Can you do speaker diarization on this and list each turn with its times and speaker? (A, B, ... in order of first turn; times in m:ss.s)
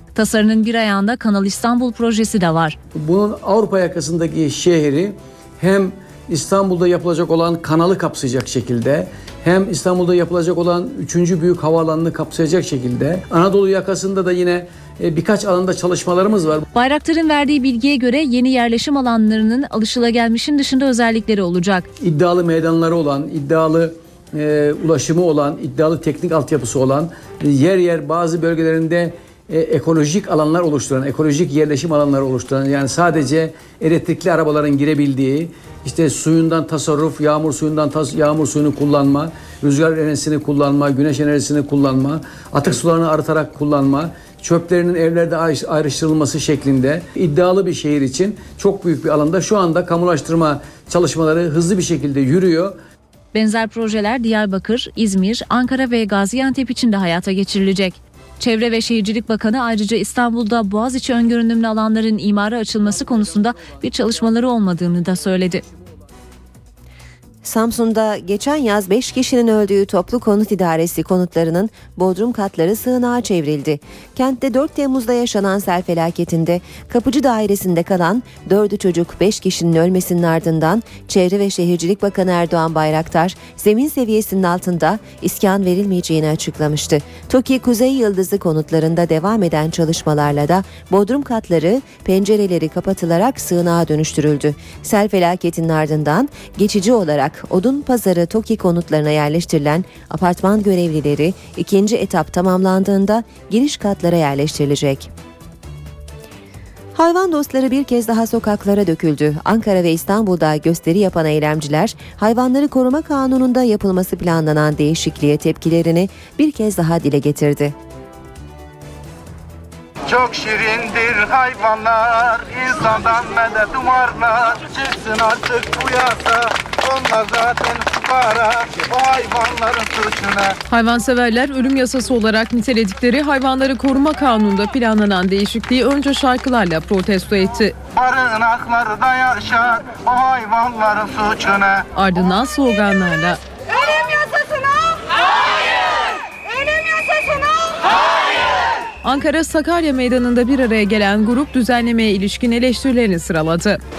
0:00.1-0:02.8 A
0:02.9-0:16.6 B
0:16.7-0:21.9 A
0:22.0-0:52.8 B
0:53.3-1:05.6 A
1:07.4-1:45.1 C
1:46.9-1:57.7 C
2:00.1-2:10.6 D
2:10.7-2:17.7 E
2:17.9-2:21.8 D
2:21.9-2:23.4 E
2:23.7-2:25.1 F
2:26.4-2:27.8 F
2:29.0-2:33.8 E